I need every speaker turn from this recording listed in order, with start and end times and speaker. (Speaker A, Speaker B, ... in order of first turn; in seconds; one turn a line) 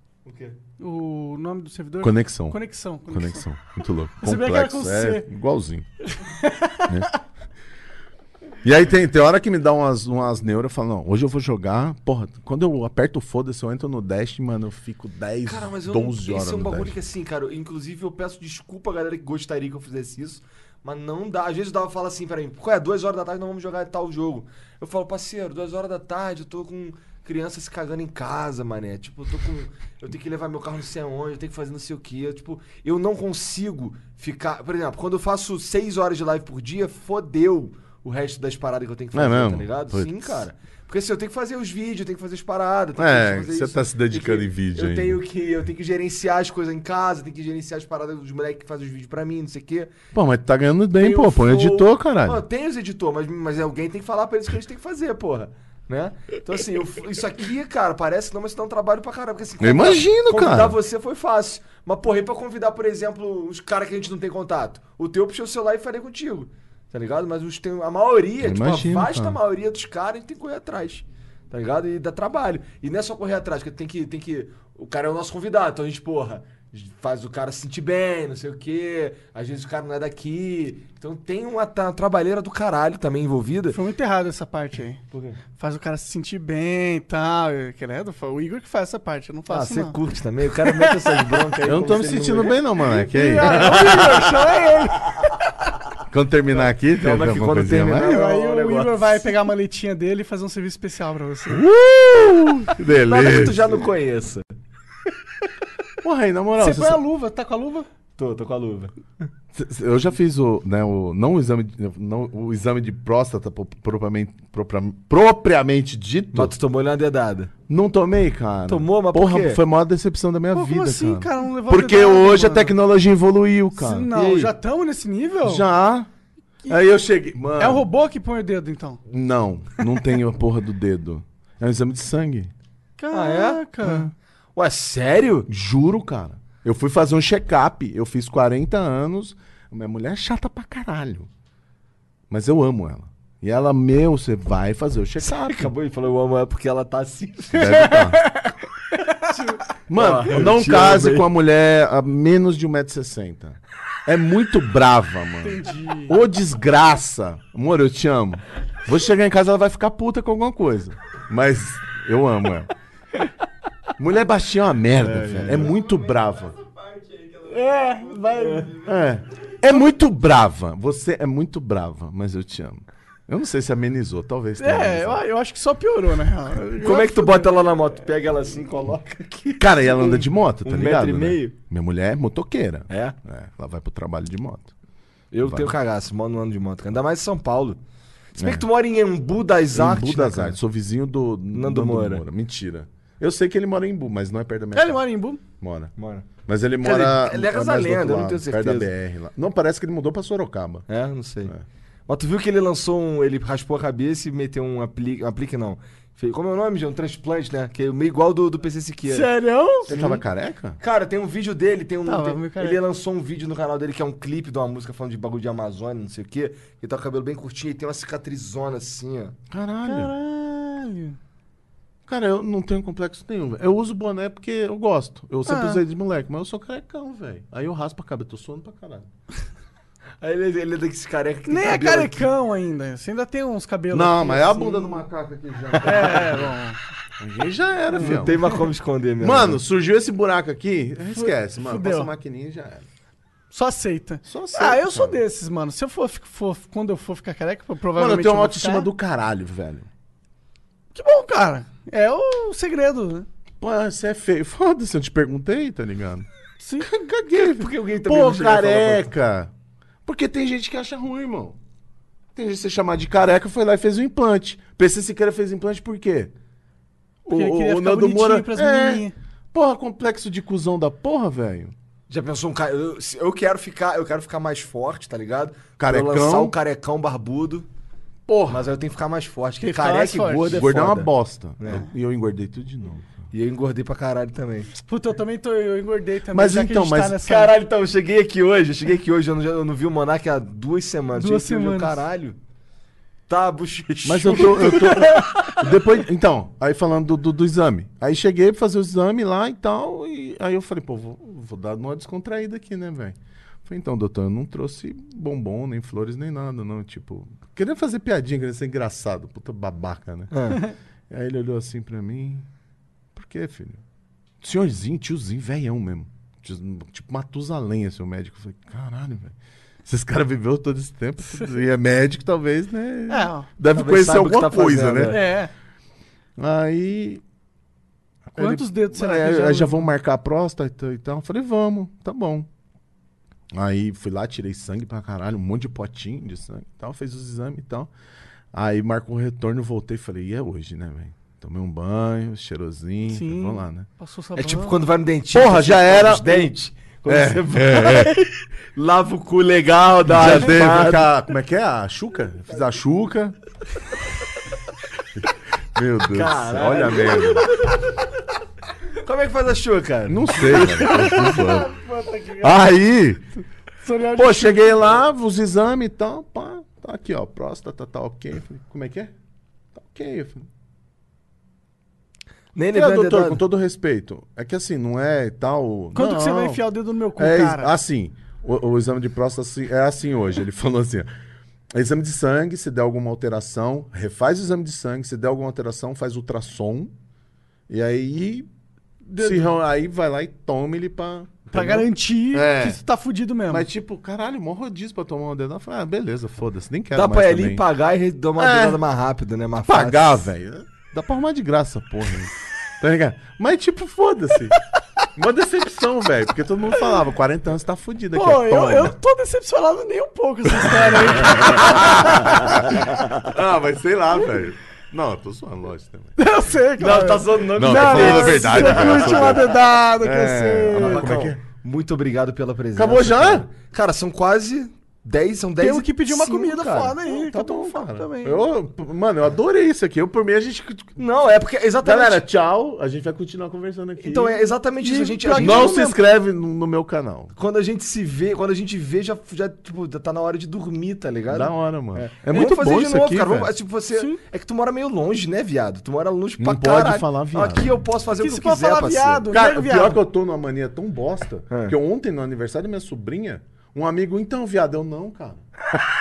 Speaker A: 0.2-0.6
Speaker B: 0.8-3.4
Speaker C: 2.0-5.9
Speaker B: 4.2-5.3
Speaker B: 6.1-7.0
Speaker C: 8.6-17.0
Speaker A: 15.4-49.9
Speaker C: 39.1-40.5
Speaker C: 43.0-45.2
Speaker C: 50.1-52.4
Speaker A: 51.0-83.8
Speaker C: 59.6-60.8
Speaker C: 68.4-69.4
Speaker B: 83.7-85.0
Speaker A: 85.1-85.4
Speaker B: 85.6-90.0
Speaker A: 89.5-92.6
Speaker B: 90.6-91.3
Speaker C: 91.6-94.1
Speaker B: 93.0-95.1
Speaker A: 93.4-94.7
Speaker C: 96.1-98.2
Speaker A: 96.5-99.4
Speaker B: 98.0-101.6
Speaker C: 101.5-103.8
Speaker A: 103.0-104.5
Speaker C: 106.0-107.0
Speaker B: 106.6-107.9
Speaker A: 108.2-108.9
Speaker C: 109.5-116.5
Speaker A: 116.3-117.5
Speaker C: 117.7-124.1
Speaker A: 118.7-119.6
Speaker B: 120.5-122.7
Speaker B: 123.8-125.6
Speaker A: 124.1-124.5
Speaker C: 125.4-126.1
Speaker C: 126.7-127.9
Speaker B: 127.6-129.0
Speaker C: 129.1-132.5
Speaker B: 133.0-134.1
Speaker A: 133.1-133.6
Speaker C: 133.8-134.1
Speaker A: 134.6-135.5
Speaker C: 135.5-141.3
Speaker C: 142.3-145.7
Speaker A: 145.2-147.8
Speaker C: 147.5-148.3
Speaker B: 147.8-148.5
Speaker B: 149.2-149.6
Speaker C: 149.9-162.7
Speaker A: 149.9-151.3
Speaker B: 155.4-156.2
Speaker C: 164.0-166.6
Speaker A: 165.0-165.8
Speaker B: 167.4-168.9
Speaker A: 168.3-168.7
Speaker C: 168.8-175.2
Speaker B: 174.6-177.5
Speaker A: 176.8-181.6
Speaker C: 179.6-184.7
Speaker A: 182.9-183.2
Speaker A: 185.3-187.8
Speaker C: 185.4-185.7
Speaker A: 188.3-190.6
Speaker C: 188.4-188.7
Speaker C: 189.7-195.0
Speaker A: 191.5-192.2
Speaker B: 194.7-195.4
Speaker C: 195.6-195.9
Speaker A: 196.0-196.3
Speaker C: 196.4-200.9
Speaker A: 196.8-198.9
Speaker A: 200.9-201.5
Speaker A: 202.1-209.3
Speaker B: 209.1-209.9
Speaker A: 209.9-210.2
Speaker C: 209.9-210.8
Speaker A: 210.8-219.3
Speaker B: 212.1-212.8
Speaker C: 219.5-220.1
Speaker B: 219.8-221.2
Speaker C: 222.1-229.1
Speaker B: 225.5-225.8
Speaker A: 230.2-232.3
Speaker B: 231.5-235.0
Speaker C: 233.9-236.5
Speaker B: 235.8-236.8
Speaker C: 237.2-238.6
Speaker B: 237.9-238.6
Speaker A: 238.0-239.6
Speaker C: 239.2-242.8
Speaker B: 241.1-242.1
Speaker B: 243.5-248.9
Speaker C: 244.2-245.2
Speaker C: 247.9-249.9
Speaker B: 250.9-253.3
Speaker C: 253.6-256.3
Speaker B: 256.6-256.9
Speaker C: 256.8-259.5
Speaker A: 257.3-259.1
Speaker C: 260.1-261.6
Speaker C: 262.3-266.3
Speaker B: 267.3-269.1
Speaker C: 267.3-271.7
Speaker A: 272.1-277.7
Speaker C: 275.8-276.6
Speaker C: 278.3-278.7
Speaker A: 278.5-281.9
Speaker B: 279.6-280.9
Speaker C: 280.5-283.1
Speaker A: 283.3-284.7
Speaker B: 284.8-287.6
Speaker C: 286.3-287.2
Speaker A: 287.2-292.4
Speaker B: 291.1-292.0
Speaker A: 293.3-295.6
Speaker C: 294.0-312.5
Speaker B: 294.6-295.2
Speaker A: 310.3-310.6
Speaker C: 313.1-313.8
Speaker C: 314.4-325.3
Speaker B: 323.1-323.5
Speaker A: 323.7-325.2
Speaker B: 325.1-325.5
Speaker C: 326.4-327.2
Speaker C: 328.3-332.5
Speaker B: 328.4-329.9
Speaker C: 333.5-337.9
Speaker C: 338.5-343.9
Speaker B: 343.1-344.8
Speaker A: 344.4-351.1
Speaker C: 345.3-346.5
Speaker C: 347.1-348.1
Speaker C: 350.1-353.4
Speaker C: 355.8-357.6
Speaker A: 356.1-357.6
Speaker A: 359.0-360.9
Speaker C: 360.1-361.7
Speaker B: 360.5-362.6
Speaker C: 362.4-363.2
Speaker B: 363.8-364.9
Speaker C: 364.1-369.1
Speaker C: 369.7-370.5
Speaker A: 372.6-373.4
Speaker C: 372.7-376.6
Speaker B: 375.9-377.7
Speaker C: 377.1-381.1
Speaker C: 381.7-386.9
Speaker C: 387.7-388.5
Speaker B: 389.1-389.5
Speaker C: 389.1-392.8
Speaker B: 391.5-393.7
Speaker C: 393.5-397.6
Speaker A: 396.9-400.2
Speaker C: 398.4-398.8
Speaker C: 399.7-404.6
Speaker C: 405.1-408.9
Speaker B: 408.1-412.9
Speaker C: 410.6-416.2
Speaker B: 416.2-421.2
Speaker A: 416.8-419.5
Speaker C: 417.6-421.4
Speaker A: 420.7-427.1
Speaker C: 422.7-423.5
Speaker B: 425.6-428.4
Speaker C: 427.1-431.0
Speaker A: 431.0-432.2
Speaker C: 431.8-434.4
Speaker A: 434.0-435.9
Speaker B: 434.8-435.9
Speaker C: 435.3-437.3
Speaker A: 437.4-449.3
Speaker C: 441.3-443.5
Speaker B: 443.9-444.2
Speaker C: 446.4-447.7
Speaker B: 448.2-450.0
Speaker C: 449.3-455.4
Speaker A: 451.5-451.8